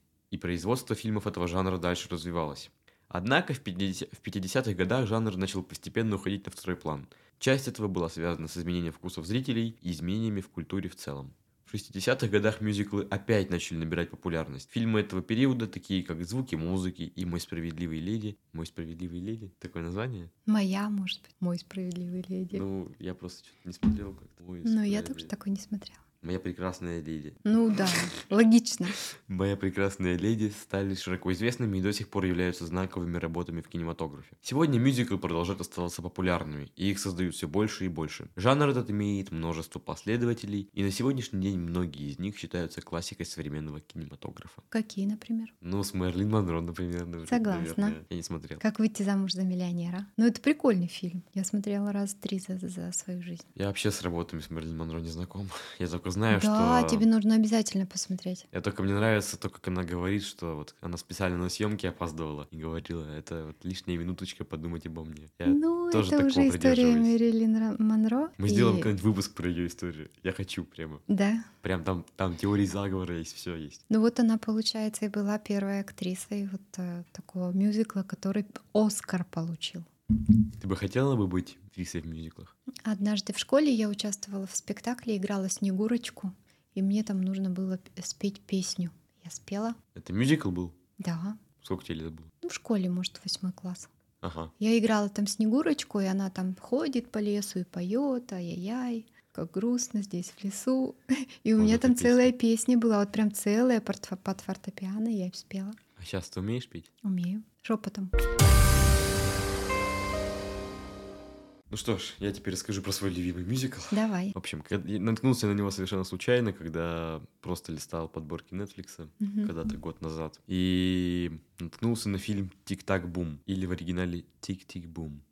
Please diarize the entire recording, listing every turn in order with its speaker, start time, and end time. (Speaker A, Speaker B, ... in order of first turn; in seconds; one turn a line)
Speaker A: 0.3-20.3
Speaker B: 20.5-22.6
Speaker A: 22.5-25.3
Speaker B: 24.6-26.0
Speaker A: 26.2-27.5
Speaker B: 27.5-29.0
Speaker A: 29.0-44.6
Speaker B: 44.7-45.5
Speaker A: 45.6-48.6
Speaker B: 47.3-48.0
Speaker B: 48.6-53.5
Speaker A: 53.6-57.1
Speaker B: 56.3-58.5
Speaker A: 58.5-67.2
Speaker B: 65.5-68.9
Speaker A: 68.4-71.0
Speaker B: 71.1-71.5
Speaker A: 71.6-73.8
Speaker B: 73.9-79.9
Speaker A: 80.6-82.5
Speaker B: 82.9-89.8
Speaker A: 90.0-90.8
Speaker B: 91.0-91.4
Speaker A: 91.6-92.3
Speaker B: 92.4-93.9
Speaker A: 94.2-94.5
Speaker B: 94.6-105.8
Speaker A: 101.6-102.3
Speaker A: 106.0-106.9
Speaker B: 107.0-108.1
Speaker A: 111.7-125.2
Speaker B: 113.9-114.3
Speaker B: 119.2-119.5